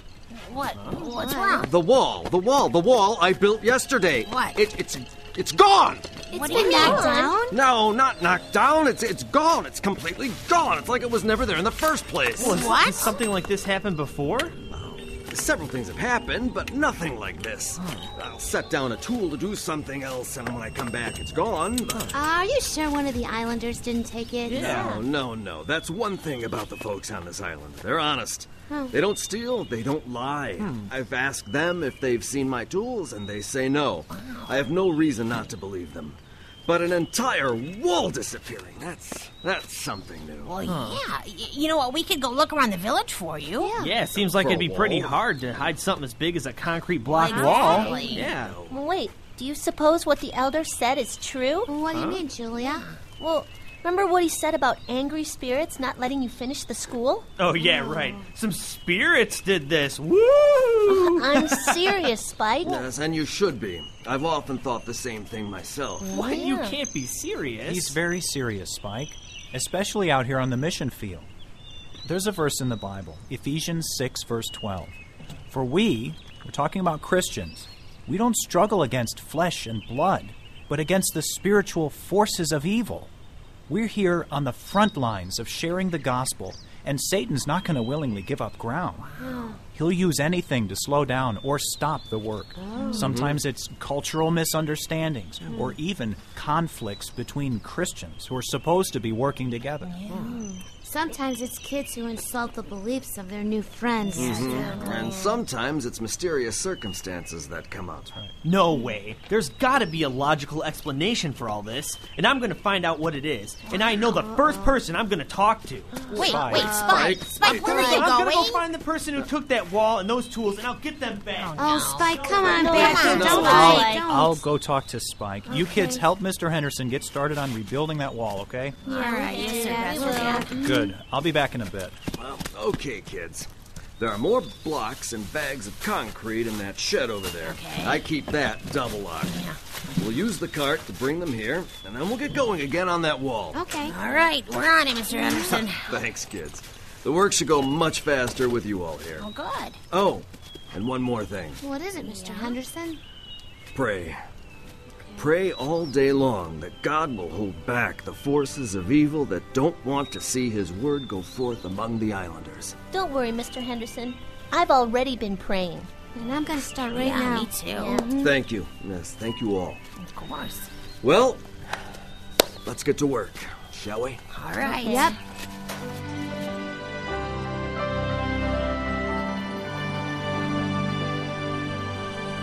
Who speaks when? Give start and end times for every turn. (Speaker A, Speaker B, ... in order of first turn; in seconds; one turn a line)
Speaker A: 0.3-1.7
Speaker B: 0.8-1.1
Speaker C: 1.6-12.7
Speaker A: 4.2-4.7
Speaker A: 6.3-7.1
Speaker D: 6.3-7.5
Speaker B: 12.4-14.5
Speaker A: 12.4-13.2
Speaker C: 14.7-22.1
Speaker B: 17.8-18.1
Speaker B: 21.9-22.2
Speaker D: 22.1-24.9
Speaker B: 24.5-24.8
Speaker C: 24.6-40.6
Speaker E: 24.7-25.0
Speaker D: 28.7-28.9
Speaker B: 30.6-30.9
Speaker A: 34.1-34.8
Speaker A: 40.4-43.8
Speaker B: 40.6-41.0
Speaker B: 43.8-48.5
Speaker C: 44.1-45.2
Speaker A: 47.1-48.4
Speaker D: 47.3-48.2
Speaker C: 48.3-48.8
Speaker E: 48.7-51.8
Speaker D: 51.6-52.9
Speaker B: 51.9-52.2
Speaker A: 52.6-53.0
Speaker E: 53.2-57.3
Speaker B: 57.4-61.5
Speaker D: 57.6-58.2
Speaker E: 60.9-62.8
Speaker C: 62.6-66.1
Speaker A: 66.0-66.4
Speaker E: 66.1-66.8
Speaker B: 66.1-68.0
Speaker F: 67.6-71.3
Speaker F: 72.0-75.0
Speaker F: 75.5-83.1
Speaker F: 83.7-89.1
Speaker D: 89.2-89.5
Speaker F: 89.7-99.9
Speaker D: 92.6-93.1
Speaker A: 92.8-93.1
Speaker C: 93.0-93.3
Speaker A: 99.8-100.5
Speaker B: 100.1-100.4
Speaker D: 100.7-105.2
Speaker A: 104.1-105.4
Speaker C: 104.2-108.1
Speaker B: 108.4-116.1
Speaker A: 113.7-114.0
Speaker D: 114.3-114.7
Speaker A: 116.0-118.6
Speaker F: 116.1-116.7
Speaker C: 116.8-117.7
Speaker B: 117.3-123.8
Speaker A: 121.3-122.1
Speaker D: 121.6-124.4
Speaker E: 122.6-124.0
Speaker A: 122.8-123.3
Speaker C: 123.2-123.4
Speaker F: 123.3-128.8
Speaker D: 125.5-126.0
Speaker A: 128.8-130.5
Speaker D: 128.8-130.9
Speaker E: 129.0-130.3
Speaker F: 130.5-132.0
Speaker C: 132.1-139.3
Speaker A: 137.4-138.1
Speaker A: 139.2-139.6
Speaker C: 139.9-143.6
Speaker D: 143.5-144.0
Speaker A: 143.8-146.1
Speaker D: 145.1-145.6
Speaker C: 145.4-149.3
Speaker A: 149.2-149.8
Speaker C: 149.9-151.6
Speaker D: 151.6-153.0
Speaker A: 152.0-152.6
Speaker C: 153.7-154.2
Speaker C: 155.2-162.8
Speaker E: 162.9-165.9
Speaker D: 166.1-168.4
Speaker A: 166.9-168.1
Speaker C: 168.2-169.8
Speaker A: 170.0-170.7
Speaker C: 171.0-171.4
Speaker C: 172.6-174.2
Speaker A: 174.3-175.1
Speaker D: 174.6-175.2
Speaker E: 174.7-175.1